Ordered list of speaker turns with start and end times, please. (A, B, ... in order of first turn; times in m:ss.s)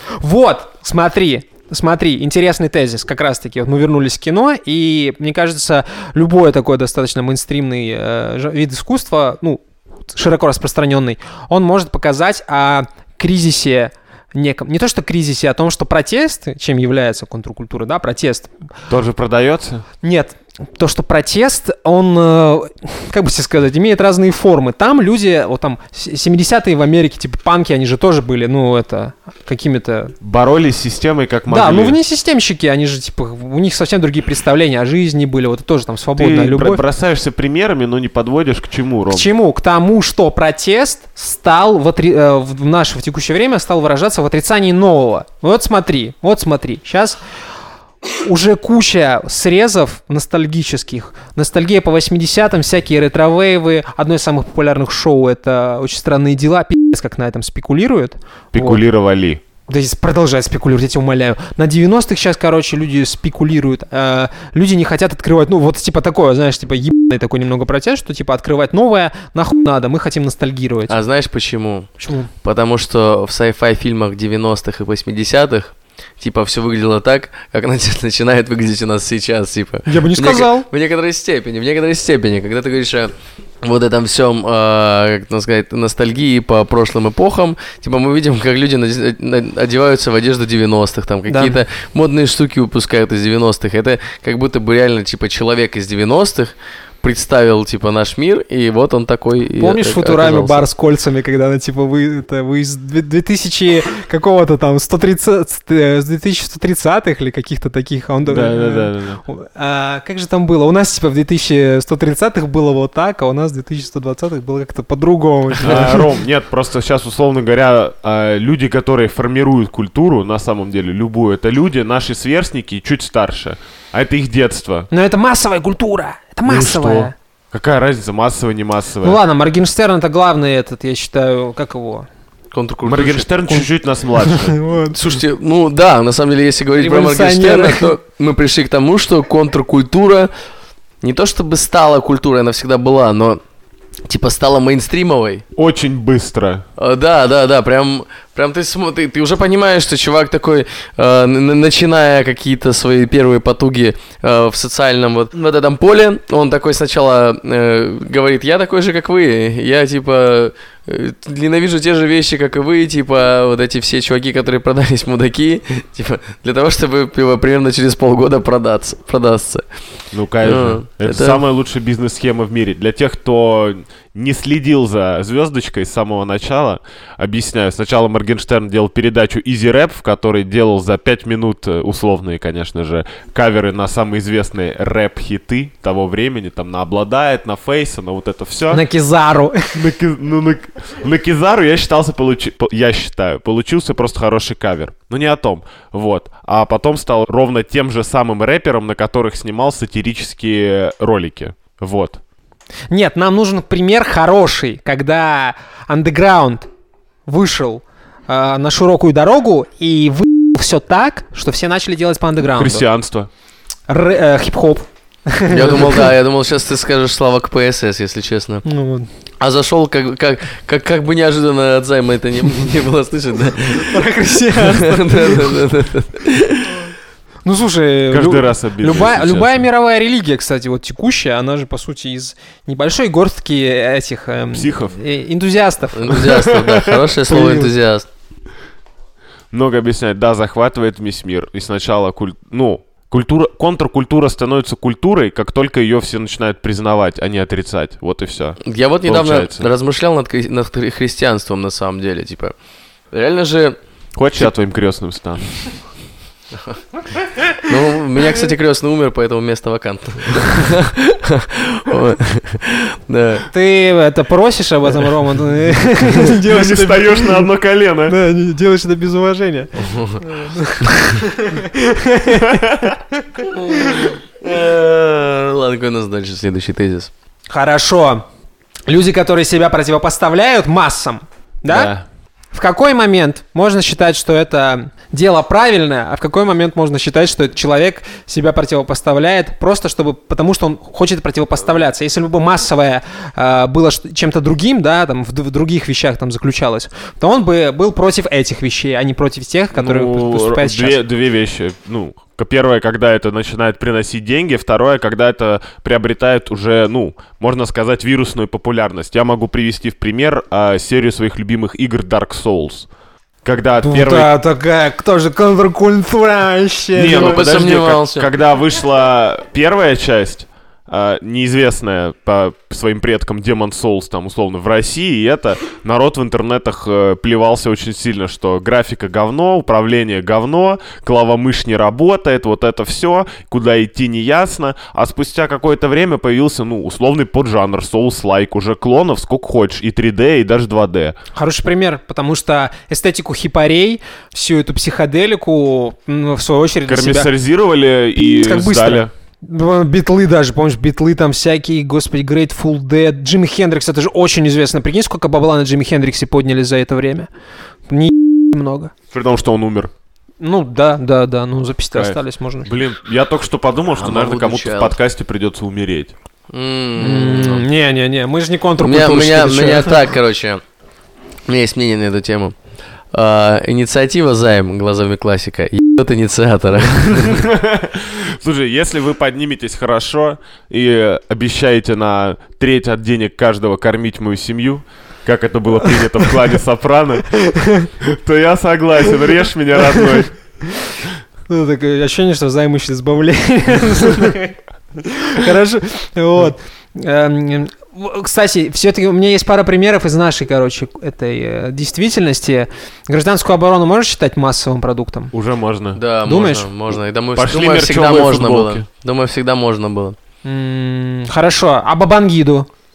0:00.2-0:18.6 A
0:18.9-0:19.8 B
0:20.0-0:30.1 A
0:30.2-0:32.0 B
0:31.5-0:36.8 A
0:36.2-0:39.3 B
0:39.1-0:47.2 A
0:48.1-0:58.8 A
0:58.5-0:59.4 B
0:59.7-1:11.0 A
1:10.9-1:40.6 C
1:12.0-1:12.3 A
1:19.9-1:20.7 A
1:31.3-1:31.6 A
1:39.6-1:56.1 A
1:48.2-1:49.2 B
1:55.6-2:04.9 B
2:04.9-2:07.1 A
2:06.5-2:09.2 B
2:09.0-2:12.1 A
2:12.5-2:13.3 C
2:12.8-2:14.6 B
2:14.2-2:15.0 A
2:14.9-2:20.3 C
2:16.8-2:17.9 A
2:21.0-2:23.4 C
2:24.1-2:25.4 C
2:25.5-2:26.6 B
2:26.8-2:49.6 C
2:50.1-3:08.8 B
2:50.4-2:51.4 C
3:08.7-3:09.8 A
3:09.7-3:22.2 B
3:22.9-3:26.7 A
3:27.3-3:32.9 A
3:32.4-3:33.3 B
3:33.9-3:36.1 A
3:35.5-3:38.6 C
3:38.6-3:39.1 A
3:39.4-3:43.9 C
3:43.7-3:45.6 A
3:44.6-3:46.7 C
3:47.4-3:56.3 A
3:48.1-3:49.6 B
3:54.5-3:55.0 B
3:56.0-3:58.1 C
3:56.4-3:57.0 B
3:57.3-3:57.7 A
3:59.5-4:09.7 B
4:08.6-4:12.5 C
4:13.1-4:13.8 C
4:14.2-4:15.6 B
4:17.6-4:23.5 C
4:23.5-4:27.5 A
4:26.2-4:28.2 B
4:28.1-4:34.1 A
4:29.8-4:30.2 C
4:32.3-4:33.0 B
4:33.5-4:37.1 C
4:37.5-4:38.2 A
4:38.9-4:41.9 A
4:41.7-4:42.0 B
4:42.5-5:01.0 A
4:59.7-5:12.9 B
5:13.4-5:14.3 B
5:13.8-5:17.4 A
5:16.9-5:41.2 B
5:17.1-5:18.3 C
5:41.3-5:47.3 A
5:46.9-5:49.1 B
5:48.2-5:57.3 A
5:57.9-5:58.9 A
5:59.1-5:59.9 B
6:00.4-6:02.7 A
6:01.9-6:06.1 B
6:03.9-6:05.0 C
6:06.5-6:07.6 C
6:07.0-6:10.0 A
6:08.8-6:10.6 C
6:11.5-6:12.5 C
6:13.1-6:17.4 C
6:17.1-6:27.4 B
6:27.4-6:27.9 A
6:28.0-6:30.4 B
6:31.5-6:45.3 A
6:45.3-6:46.0 B
6:45.9-6:50.2 C
6:46.2-6:46.7 A
6:47.4-6:48.8 B
6:50.4-6:52.7 A